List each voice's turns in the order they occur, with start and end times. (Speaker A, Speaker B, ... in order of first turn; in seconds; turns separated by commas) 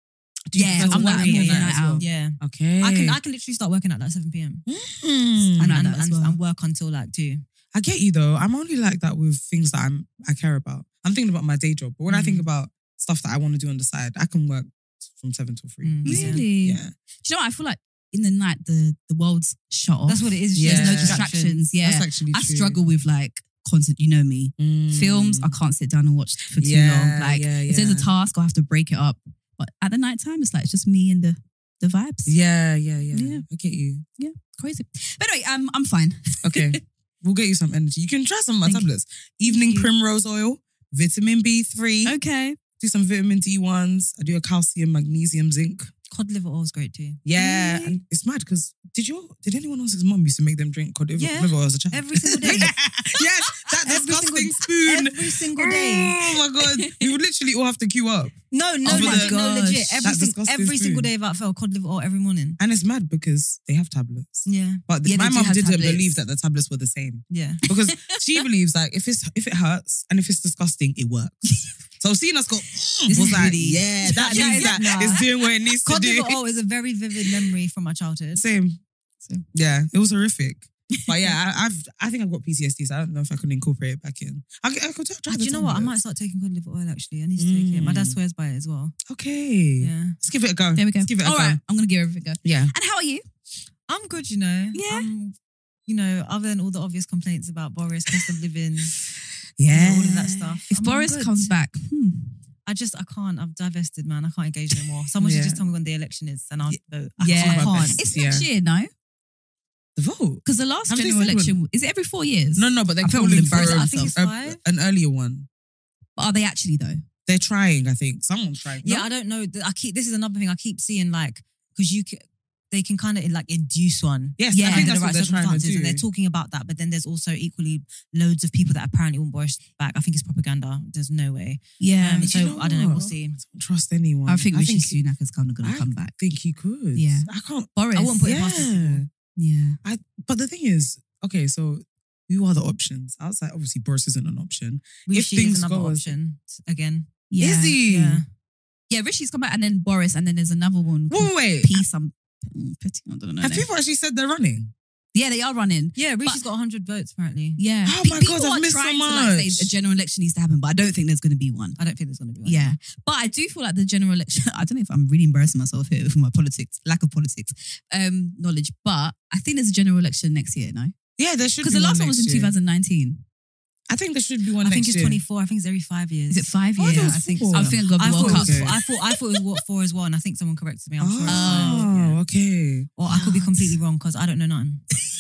Speaker A: 0.5-3.2, Speaker B: 0.5-2.1, Speaker C: 0.7-4.7, Speaker A: 4.7-5.8, Speaker B: 5.6-6.4, Speaker C: 5.7-7.4, Speaker A: 7.7-16.9, Speaker C: 12.1-12.4, Speaker C: 15.8-16.4, Speaker B: 16.1-32.4, Speaker C: 20.1-21.6, Speaker A: 20.5-22.8, Speaker A: 24.6-25.6, Speaker A: 26.6-28.1, Speaker A: 32.3-34.0, Speaker B: 33.1-33.5, Speaker B: 34.2-36.8, Speaker A: 36.4-42.2, Speaker B: 42.0-42.6, Speaker A: 42.8-45.9, Speaker C: 46.1-47.2, Speaker A: 47.2-59.4, Speaker B: 47.4-48.0, Speaker C: 51.2-52.7, Speaker C: 53.8-56.2, Speaker B: 56.6-57.1, Speaker C: 58.5-62.6, Speaker B: 58.9-60.1, Speaker A: 60.0-61.1, Speaker A: 62.6-71.5, Speaker C: 64.5-64.8, Speaker B: 65.0-66.1, Speaker C: 67.3-67.6, Speaker B: 67.7-68.2, Speaker A: 72.0-76.4, Speaker B: 73.1-75.2, Speaker C: 74.1-75.3, Speaker C: 75.8-78.4, Speaker A: 78.3-78.8, Speaker A: 79.5-86.0, Speaker C: 85.3-89.0, Speaker A: 87.4-88.2, Speaker A: 89.1-91.6, Speaker C: 89.8-90.2, Speaker B: 90.8-93.2, Speaker A: 92.4-92.7, Speaker C: 93.9-95.3, Speaker B: 94.7-95.1, Speaker C: 95.9-99.0, Speaker A: 99.6-100.6, Speaker C: 99.7-101.5, Speaker B: 100.7-102.4, Speaker C: 102.7-108.0, Speaker A: 105.2-105.6, Speaker A: 106.7-108.5, Speaker B: 107.2-108.9, Speaker A: 110.0-111.6, Speaker B: 110.5-114.1, Speaker A: 112.6-115.5, Speaker C: 113.4-114.6, Speaker B: 116.2-117.0, Speaker A: 117.3-119.1, Speaker C: 118.8-133.4, Speaker A: 124.4-126.0, Speaker B: 124.5-124.9, Speaker B: 131.8-132.3, Speaker A: 132.2-135.0, Speaker B: 134.3-136.1, Speaker A: 135.6-139.1, Speaker B: 136.9-138.2, Speaker C: 137.9-139.0, Speaker B: 139.4-139.8, Speaker A: 139.8-146.2, Speaker C: 145.1-147.2, Speaker B: 147.3-147.8, Speaker A: 147.4-148.2, Speaker C: 147.8-148.3, Speaker B: 148.9-153.7, Speaker A: 151.1-151.8, Speaker A: 153.4-154.7, Speaker B: 155.1-156.4, Speaker C: 156.0-157.6, Speaker B: 157.6-161.8, Speaker A: 157.9-159.7, Speaker C: 161.8-162.8, Speaker B: 162.4-170.9, Speaker A: 171.2-172.5, Speaker B: 171.6-173.2, Speaker A: 173.9-175.2, Speaker C: 174.6-182.2, Speaker B: 176.3-178.8, Speaker A: 176.8-178.8, Speaker A: 181.0-182.9, Speaker B: 181.3-181.9, Speaker C: 183.0-184.8, Speaker B: 183.1-183.7